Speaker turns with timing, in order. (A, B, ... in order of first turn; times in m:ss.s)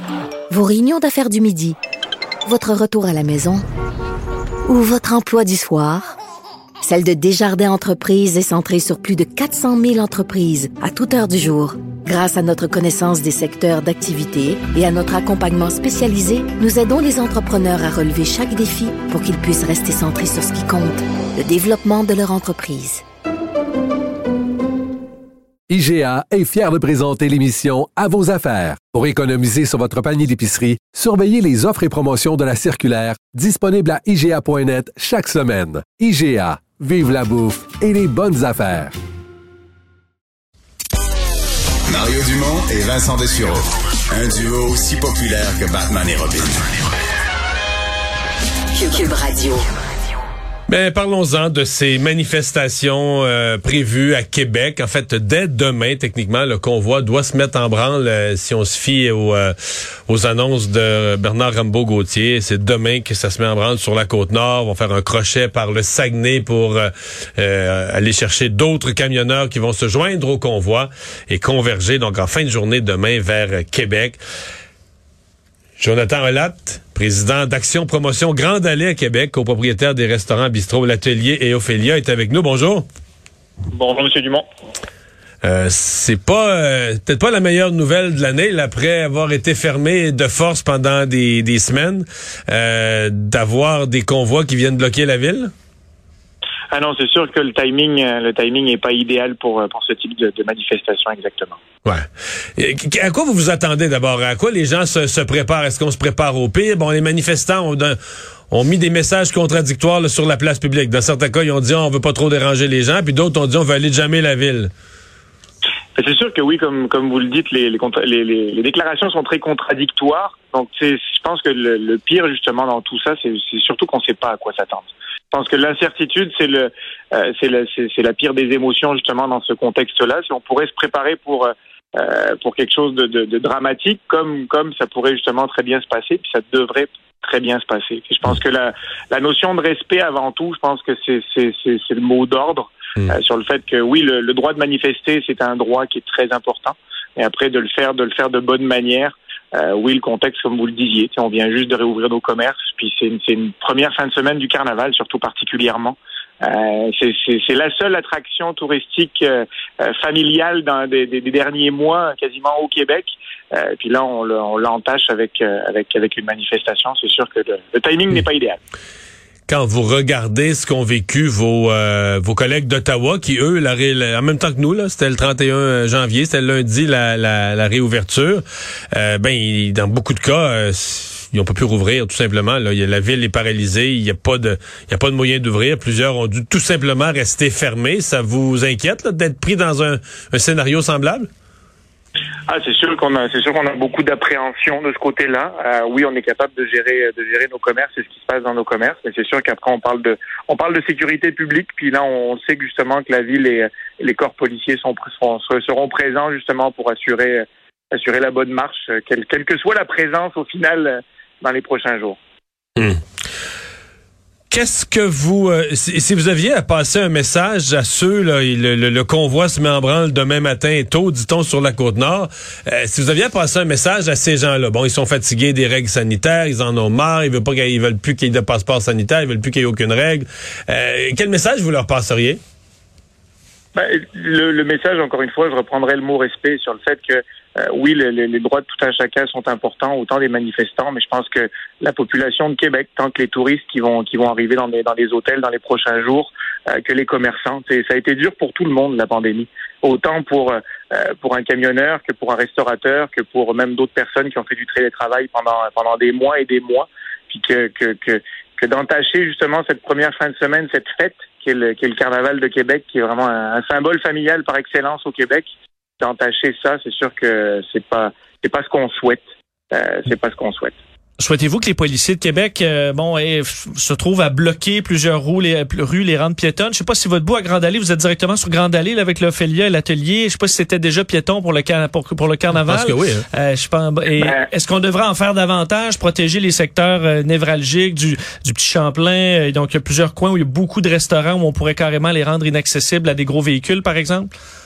0:00.5-0:01.8 A
0:02.4-0:03.6 A
0:04.7-0:06.2 A
0:06.8-0:23.0 A
0:25.7-0:39.0 B
0:41.9-0:46.9 C
0:48.7-0:49.6 A
0:50.7-0:59.5 D
1:00.1-1:14.2 D
1:15.8-1:22.8 D
1:23.7-1:24.4 E
1:25.4-1:35.5 D
1:36.7-1:41.6 E
1:42.6-1:48.0 D
1:48.5-1:54.7 D
1:56.0-2:48.6 E
2:49.5-3:11.3 D
3:12.5-3:32.2 E
3:34.5-3:52.4 D
3:53.7-4:25.5 E
4:26.0-4:30.7 E
4:31.2-4:54.3 F
4:42.5-4:43.2 D